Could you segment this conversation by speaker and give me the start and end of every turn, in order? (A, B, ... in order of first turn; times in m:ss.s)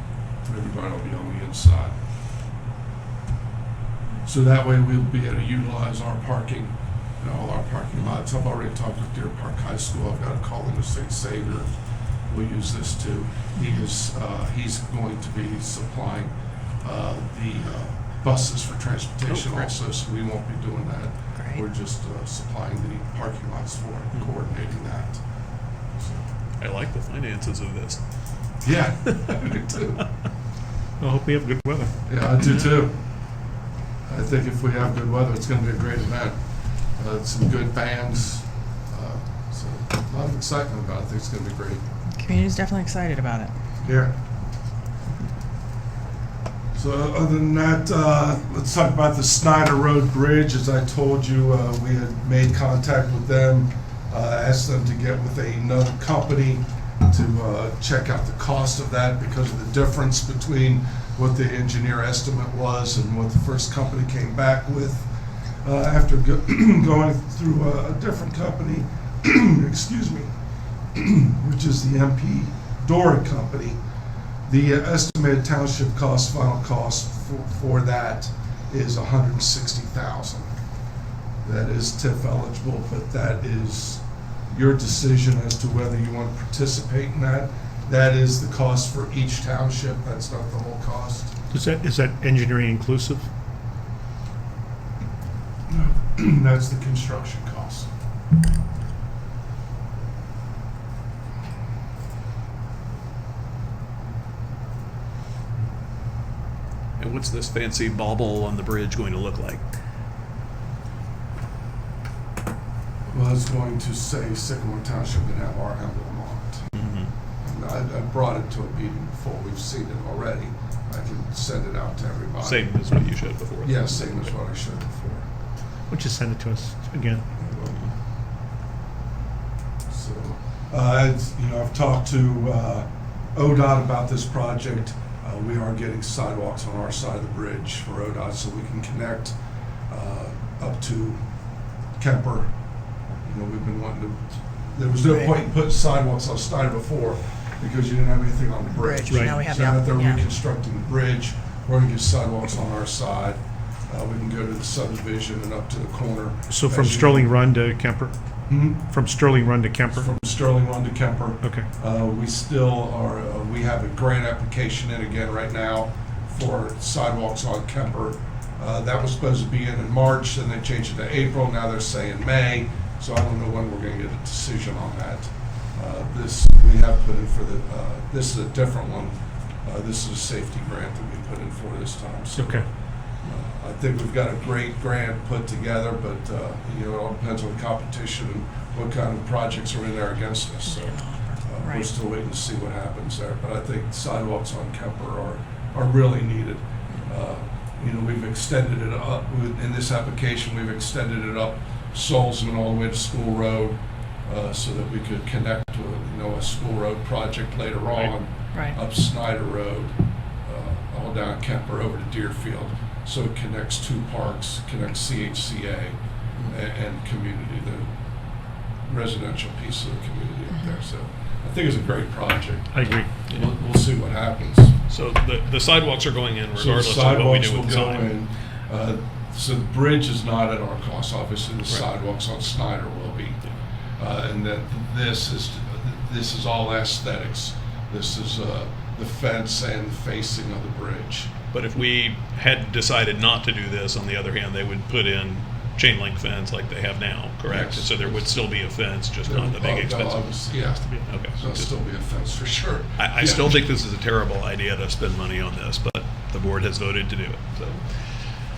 0:00.4-0:02.0 A
0:04.2-0:11.7 A
0:12.3-0:16.3 A
0:16.8-0:25.2 A
0:19.3-0:19.7 B
0:21.4-0:21.6 C
0:25.9-0:26.2 A
0:26.6-0:28.0 B
0:28.6-0:30.0 A
0:31.0-0:32.0 D
0:32.1-0:33.0 A
0:34.1-0:36.4 A
0:37.0-0:41.8 A
0:42.2-0:43.5 C
0:43.8-0:44.1 A
0:46.8-1:05.1 A
1:05.6-1:10.3 A
1:10.9-1:13.8 A
1:14.5-1:20.5 A
1:21.4-1:31.3 A
1:31.5-1:33.3 D
1:35.7-1:37.9 A
1:47.0-1:49.6 B
1:53.1-1:56.7 A
1:56.7-1:57.1 B
1:57.4-2:02.7 A
2:02.4-2:04.2 B
2:03.6-2:05.3 A
2:05.9-2:07.2 D
2:07.4-2:07.9 A
2:09.9-2:19.4 A
2:19.9-2:21.2 A
2:22.0-2:22.5 A
2:23.2-2:37.3 A
2:25.0-2:25.4 C
2:28.8-2:30.2 C
2:29.1-2:29.4 D
2:36.5-2:38.2 D
2:38.5-2:38.8 A
2:38.7-2:40.2 D
2:39.9-3:02.7 A
2:41.4-2:41.7 D
3:02.4-3:02.7 D
3:03.2-3:36.0 A
3:10.7-3:11.9 C
3:36.5-3:37.9 A
3:38.9-3:44.8 A
3:42.7-3:43.1 D
3:44.9-3:48.2 B
3:46.6-3:53.4 A
3:54.0-4:01.3 A
4:01.5-4:10.5 B
4:07.5-4:08.2 A
4:09.2-4:13.6 A
4:11.1-4:11.7 B
4:13.0-4:18.0 B